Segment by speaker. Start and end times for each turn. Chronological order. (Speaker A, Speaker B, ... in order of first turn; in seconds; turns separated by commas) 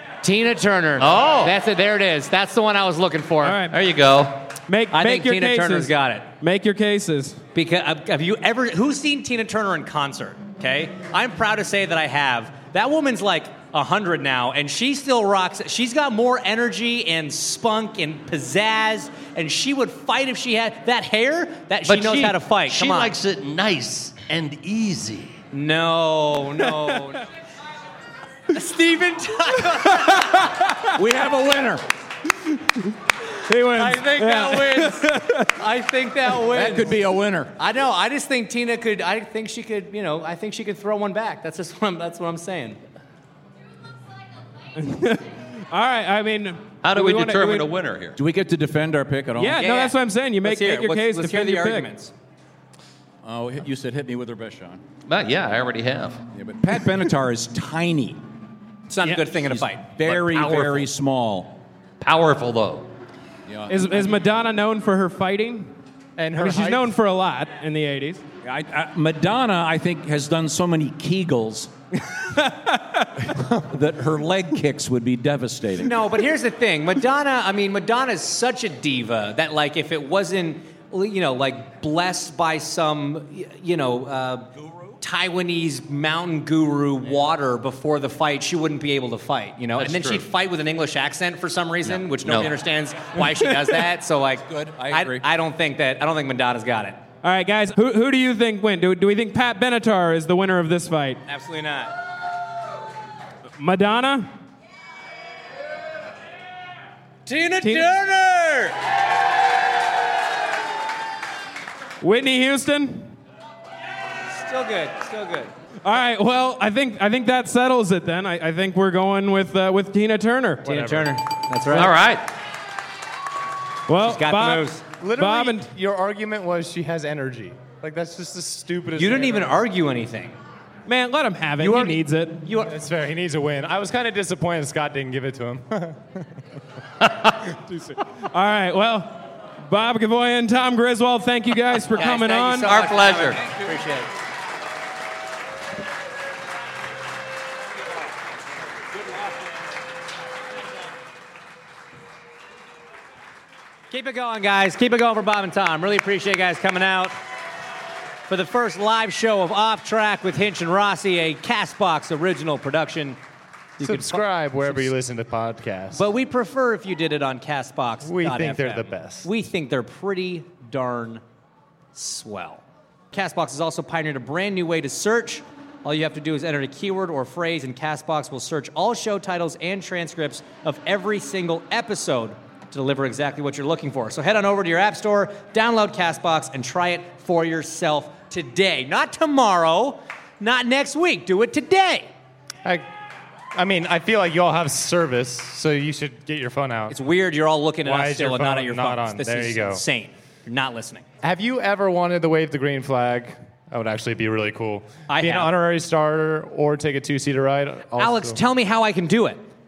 Speaker A: 0.2-3.6, Speaker B: 1.0-1.5, Speaker C: 3.4-3.8, Speaker B: 3.7-4.5, Speaker C: 4.7-7.4, Speaker A: 4.9-6.3, Speaker A: 7.5-23.1, Speaker B: 21.9-25.4, Speaker A: 25.5-27.2, Speaker A: 28.5-30.4, Speaker D: 30.8-31.8, Speaker C: 33.5-35.5, Speaker A: 33.6-37.0, Speaker D: 36.5-37.5, Speaker A: 37.6-42.8, Speaker C: 44.8-47.7, Speaker B: 46.8-48.2, Speaker D: 48.2-49.6, Speaker C: 49.4-51.9, Speaker A: 49.6-52.1, Speaker D: 53.2-54.8, Speaker B: 55.1-56.2, Speaker D: 56.3-58.2, Speaker A: 58.9-60.9, Speaker D: 59.4-61.6, Speaker B: 62.0-62.9, Speaker D: 63.5-64.2, Speaker C: 63.7-65.7, Speaker E: 66.2-67.0, Speaker C: 66.4-68.2, Speaker D: 68.4-71.7, Speaker C: 72.5-72.8, Speaker D: 73.3-76.0, Speaker A: 75.8-97.0, Speaker B: 89.8-90.2, Speaker B: 92.0-92.6, Speaker D: 94.5-95.2, Speaker C: 97.2-101.2, Speaker A: 101.3-101.9, Speaker C: 103.6-104.3, Speaker A: 107.3-108.8, Speaker C: 107.6-107.9, Speaker C: 112.0-113.1, Speaker A: 114.3-115.5, Speaker C: 115.8-120.6, Speaker E: 120.7-121.1, Speaker A: 120.7-121.9, Speaker B: 121.7-122.2, Speaker C: 123.9-125.7, Speaker A: 124.0-124.8, Speaker E: 125.0-129.6, Speaker A: 129.0-130.4, Speaker C: 130.9-132.5, Speaker A: 131.6-132.7, Speaker E: 132.7-136.2, Speaker C: 137.8-142.7, Speaker A: 141.9-144.1, Speaker B: 142.6-143.4, Speaker A: 153.9-157.2, Speaker A: 158.3-163.2, Speaker A: 163.8-164.9, Speaker E: 163.8-166.1, Speaker A: 165.9-171.2, Speaker E: 168.0-169.3, Speaker A: 171.9-192.1, Speaker E: 193.6-197.0, Speaker A: 196.9-201.1, Speaker E: 197.8-199.8, Speaker E: 201.2-208.4, Speaker A: 205.1-205.5, Speaker A: 208.0-209.4